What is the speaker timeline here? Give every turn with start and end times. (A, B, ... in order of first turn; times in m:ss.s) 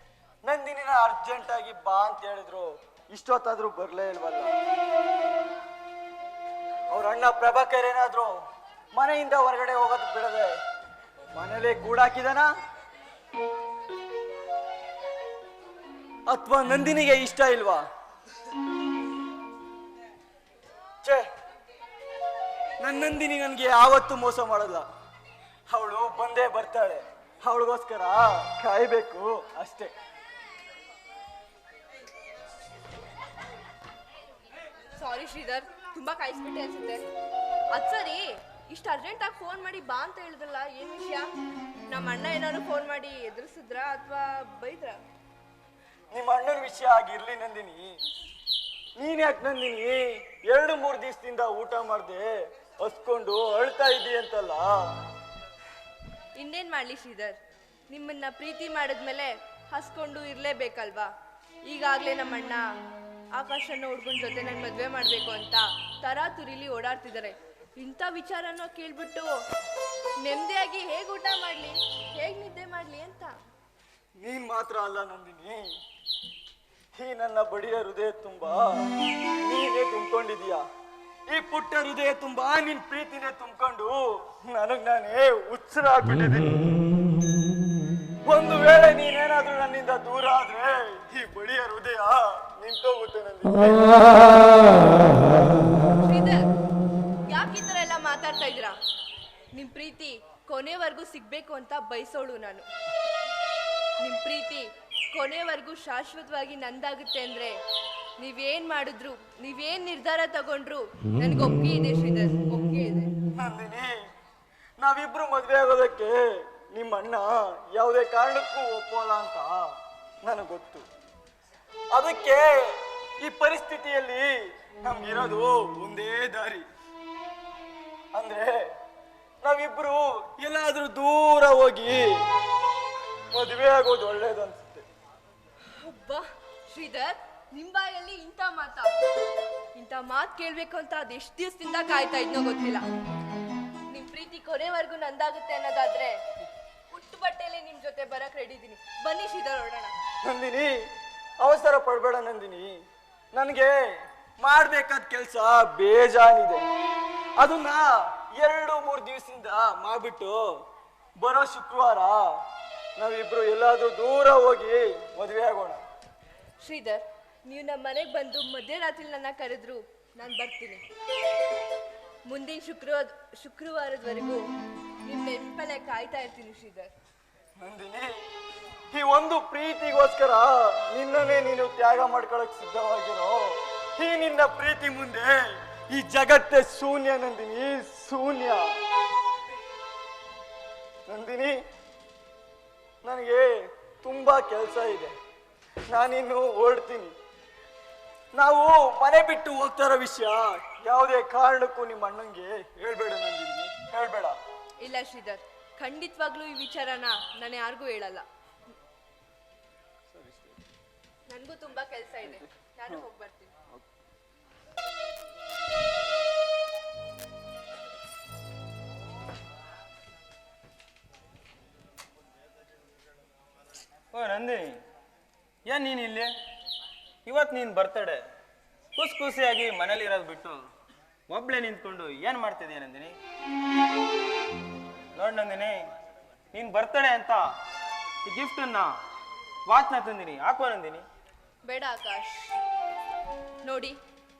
0:00.4-0:04.5 A
0:06.9-0:08.4 A
0:08.9-0:10.5 A
0:11.3-0:12.5 A
0:16.3-0:17.8 A
0:22.8-0:24.8 A
0:25.7-0:29.9 A
0:34.9-0:37.1 B
0:37.7-0:41.3 B
0:41.9-0:45.0 B
0:46.1-0:47.9 A
0:49.0-0:52.3 A
0:52.8-0:54.7 A
0:56.4-0:57.4 B
0:57.9-1:01.1 B
1:01.7-1:02.6 B
1:03.3-1:09.3 B
1:10.2-1:13.3 B
1:14.2-1:15.7 A
1:16.9-1:20.6 A
1:21.3-1:26.7 A
1:28.2-1:34.5 A
1:36.0-1:36.5 B
1:37.3-1:38.7 B
1:39.5-1:42.6 B
1:44.0-1:47.6 B
1:48.2-1:53.1 B
1:53.4-1:54.0 A
1:54.8-1:59.7 A
2:00.2-2:00.8 A
2:01.9-2:06.6 A
2:08.1-2:08.7 A
2:09.4-2:12.1 A
2:13.3-2:14.8 A
2:15.8-2:18.9 B
2:19.7-2:22.8 B
2:23.9-2:26.2 B
2:26.9-2:29.9 B
2:30.2-2:30.7 A
2:31.4-2:32.7 A
2:33.3-2:36.6 A
2:37.4-2:40.4 A
2:41.2-2:42.3 A
2:43.0-2:45.8 A
2:46.6-2:50.8 B
2:52.3-2:54.4 B
2:55.0-2:56.9 B
2:57.6-2:58.1 A
2:58.9-3:08.7 A
3:11.1-3:11.5 A
3:13.0-3:15.1 A
3:15.9-3:17.1 A
3:18.4-3:24.4 A
3:24.8-3:28.2 B
3:30.1-3:30.5 A
3:31.3-3:33.5 B
3:44.1-3:44.8 C
3:45.6-3:46.3 C
3:47.2-3:48.2 C
3:49.0-3:50.5 C
3:51.3-3:53.2 C
3:55.2-3:55.8 C
3:56.5-3:57.4 C
3:58.2-3:58.9 C
3:59.7-4:01.0 C
4:01.6-4:02.6 B
4:03.6-4:04.0 B